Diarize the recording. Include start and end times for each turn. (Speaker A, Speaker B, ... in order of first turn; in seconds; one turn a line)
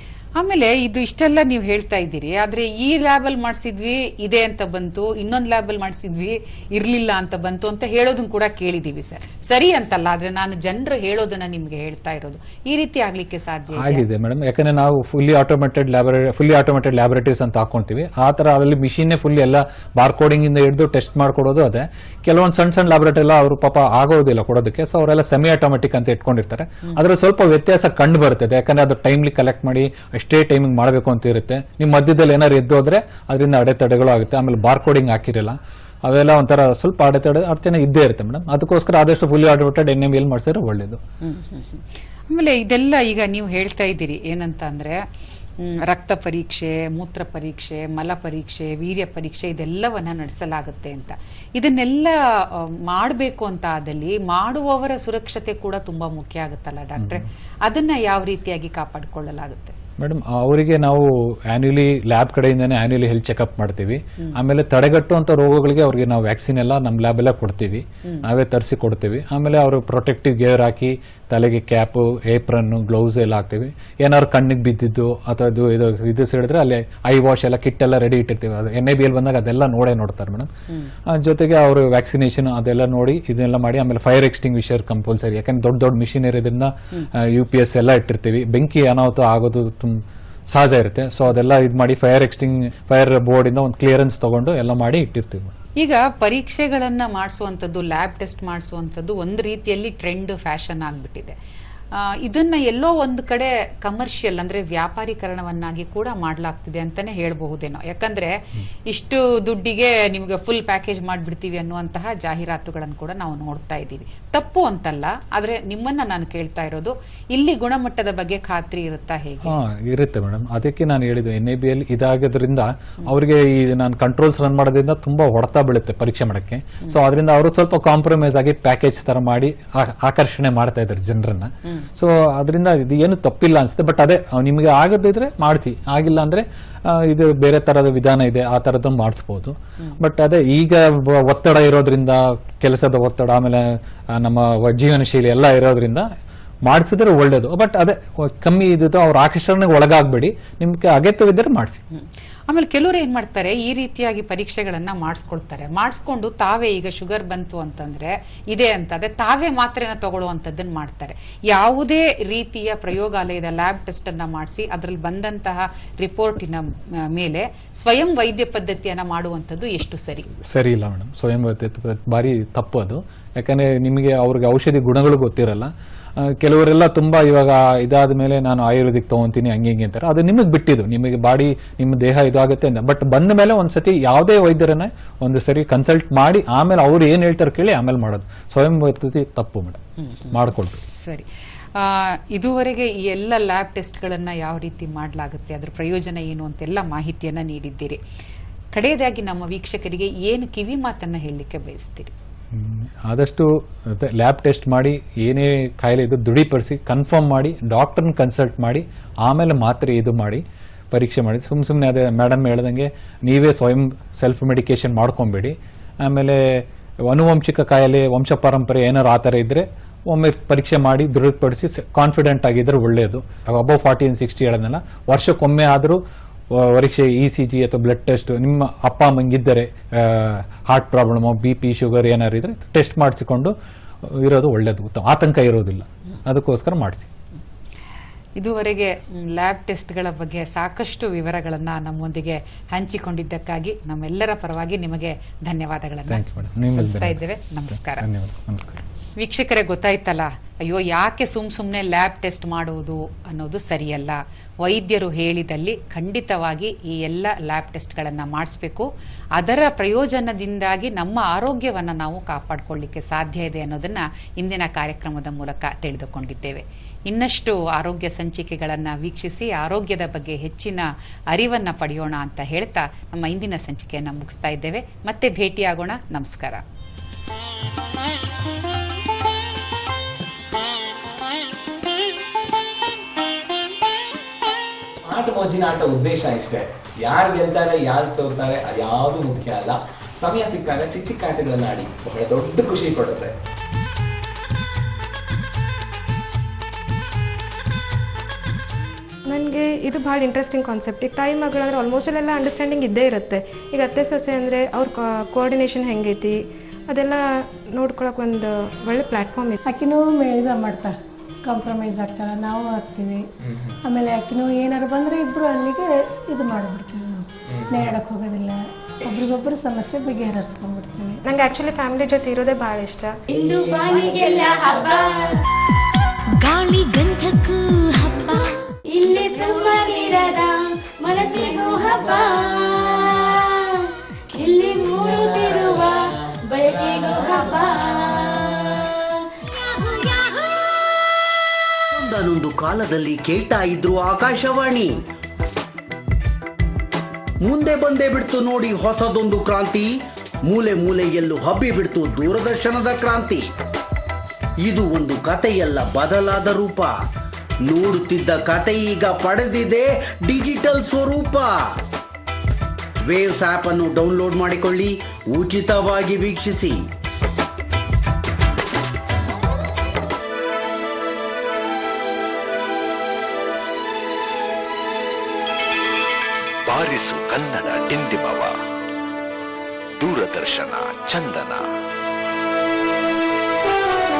Speaker A: 0.3-14.0
Speaker B: 13.7-41.0
Speaker A: 41.2-45.0
Speaker A: 45.6-59.7
Speaker B: 57.0-57.2
Speaker B: 60.0-80.5
Speaker B: 81.0-95.5
Speaker A: 95.8-101.3
Speaker A: 101.9-119.5
Speaker B: 119.4-146.1
Speaker B: 146.6-151.8
Speaker A: 151.9-170.3
Speaker B: 170.4-190.8
Speaker A: 190.0-198.0
Speaker A: 198.7-202.1
Speaker B: 202.5-237.1
Speaker A: 238.4-248.0
Speaker B: 246.1-248.8
Speaker A: 249.2-276.6
Speaker C: 285.1-293.3
Speaker B: 285.1-286.6
Speaker B: 287.9-289.2
Speaker B: 290.2-293.2
Speaker D: 299.2-309.6
Speaker E: 309.6-313.2
Speaker E: 313.8-321.2
Speaker D: 321.2-323.1
Speaker F: 323.3-325.4
Speaker G: 326.4-328.6
Speaker F: 328.9-339.0
Speaker F: 339.9-340.3
Speaker H: 341.9-345.0
Speaker H: 347.4-353.4
Speaker H: 354.6-356.9
Speaker H: 357.6-361.8
Speaker H: 363.0-366.8
Speaker I: 376.6-378.5
Speaker I: 380.0-381.6